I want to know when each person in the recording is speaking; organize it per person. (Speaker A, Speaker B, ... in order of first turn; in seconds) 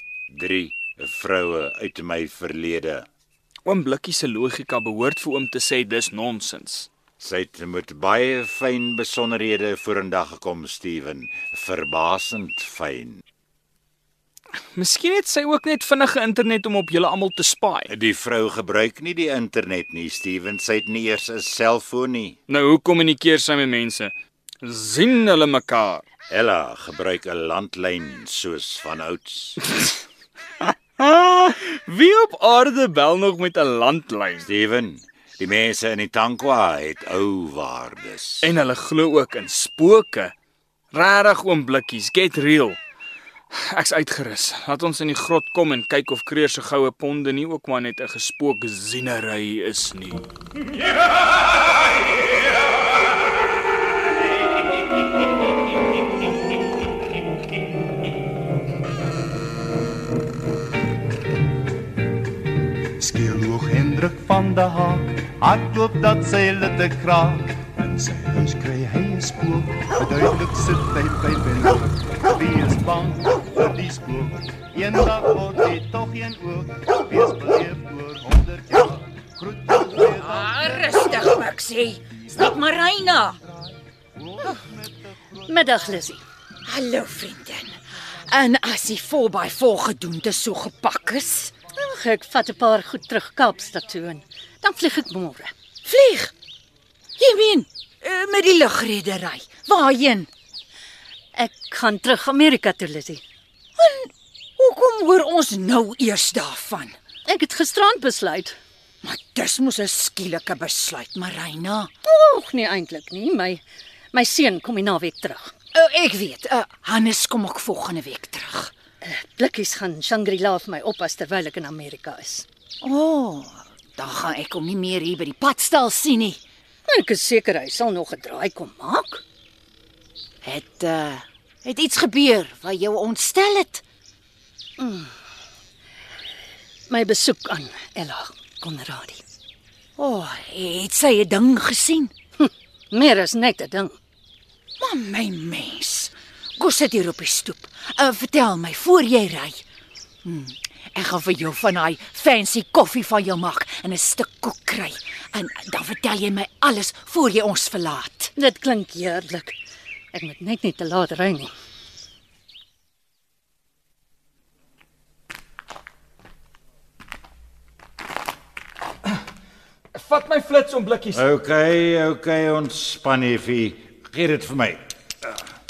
Speaker A: 0.3-3.1, 7.2-13.2, 17.9-22.4, 26.3-29.6, 34.4-38.5, 171.1-174.9
Speaker B: 3.6-6.9, 14.7-17.9, 22.5-26.0, 31.0-34.5, 38.4-40.3, 40.9-42.8, 43.5-50.2, 169.9-171.2
Speaker C: 63.0-80.3
Speaker D: 80.2-83.4, 86.7-91.5, 95.8-96.3, 97.2-100.3, 103.8-107.0, 109.0-111.9, 115.7-118.7, 122.8-126.4, 130.4-133.8, 140.0-142.1, 144.8-149.6, 150.2-158.3
Speaker E: 85.5-86.2, 91.7-95.5, 101.3-103.2, 107.2-108.5, 112.0-113.6, 114.1-115.5, 119.0-122.5, 126.9-129.2, 134.8-135.1, 136.9-139.2, 142.4-143.9, 158.4-159.6, 160.1-161.5